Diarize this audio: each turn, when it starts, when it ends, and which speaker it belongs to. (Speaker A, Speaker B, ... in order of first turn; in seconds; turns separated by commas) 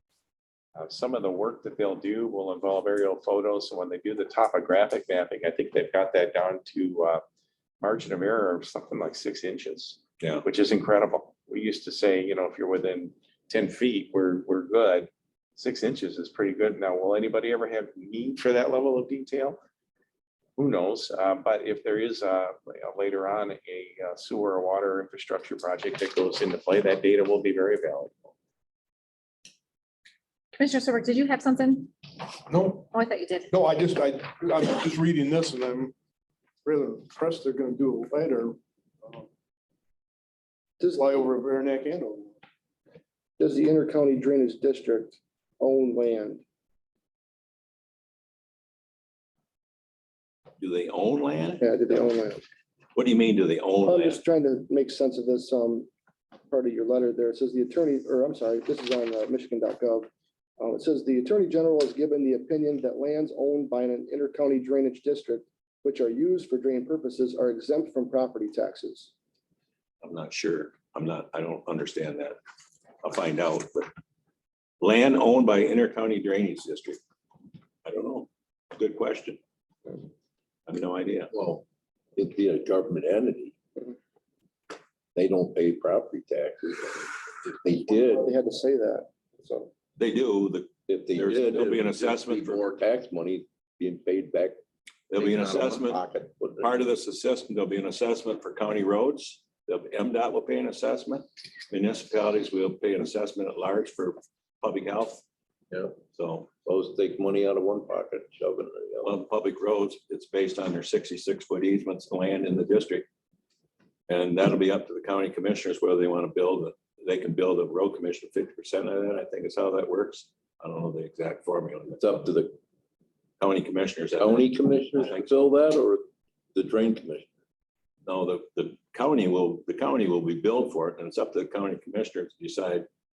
Speaker A: 0.7-7.2, Speaker A: 7.8-19.6, Speaker A: 20.6-28.3, Speaker B: 30.5-31.9, Speaker C: 32.5-32.8, Speaker B: 32.8-33.5, Speaker C: 33.5-35.9, Speaker C: 36.6-39.2, Speaker C: 40.9-42.3, Speaker D: 43.4-46.4, Speaker E: 50.6-51.6, Speaker D: 51.6-52.4, Speaker E: 53.0-54.2, Speaker D: 53.8-55.9, Speaker D: 56.5-60.1, Speaker D: 60.6-69.1, Speaker E: 70.0-72.4, Speaker E: 73.0-73.9, Speaker E: 74.8-77.0, Speaker E: 77.8-79.4, Speaker E: 80.7-81.3, Speaker F: 81.3-81.6, Speaker F: 82.2-83.5, Speaker F: 85.1-88.3, Speaker D: 87.7-89.7, Speaker E: 90.0-92.6, Speaker F: 90.9-94.6, Speaker E: 95.1-96.0, Speaker F: 95.2-96.9, Speaker E: 96.6-105.2, Speaker F: 105.7-106.0, Speaker E: 106.1-106.5, Speaker F: 106.6-109.2, Speaker E: 109.0-113.0, Speaker E: 114.1-122.1, Speaker F: 122.0-122.5, Speaker E: 123.4-125.2, Speaker F: 124.2-127.3, Speaker E: 128.1-132.9